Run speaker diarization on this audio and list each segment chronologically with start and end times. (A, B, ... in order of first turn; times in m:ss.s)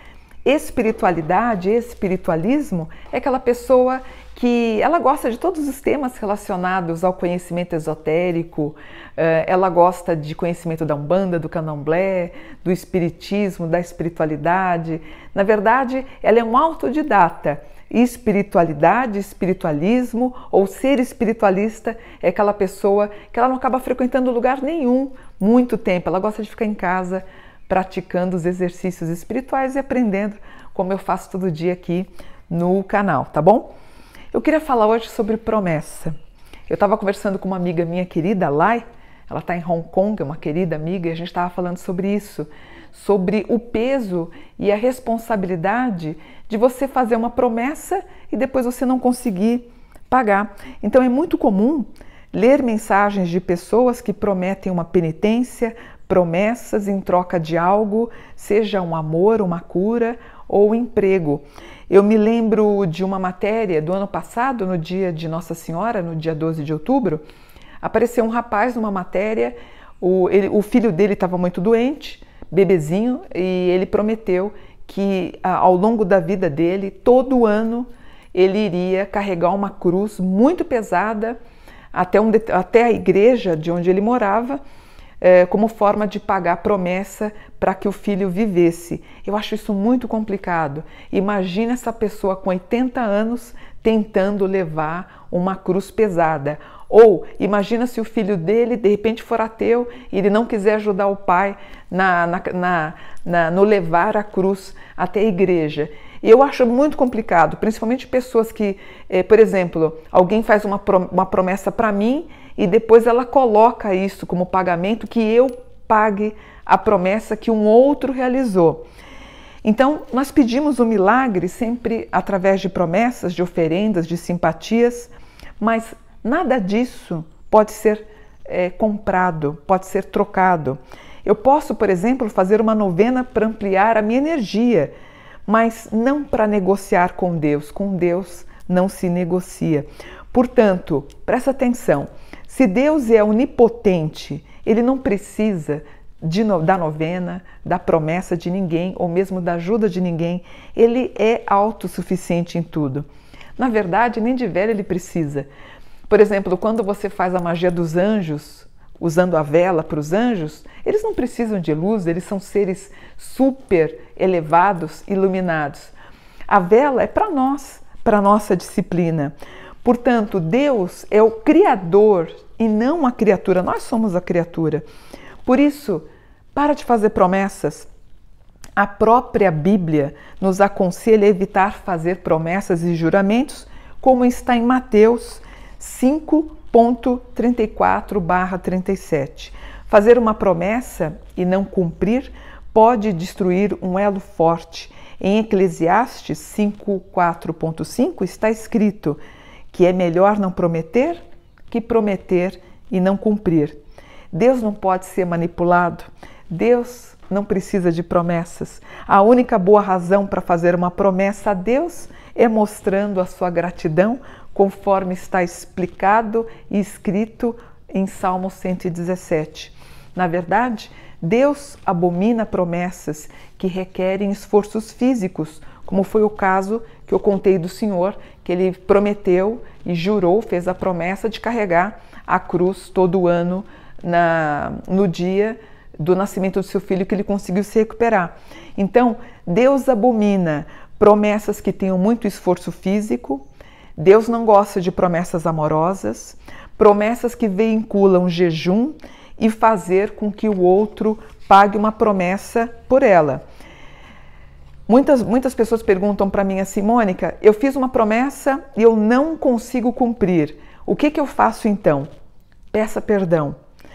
0:00.4-0:33.7 A
0:34.3-0:36.1 A
0:36.7-1:07.2 A
1:07.8-1:21.4 A
1:21.9-1:24.6 A
1:25.2-1:58.9 A
1:59.6-2:14.9 A
2:15.5-2:35.5 A
2:36.1-2:45.9 A
2:46.5-2:54.8 A
2:55.4-2:57.9 A
2:58.8-3:19.2 A
3:19.7-3:23.8 A
3:24.3-4:03.4 A
4:04.0-4:13.4 A
4:14.9-4:22.1 A
4:22.7-4:23.6 A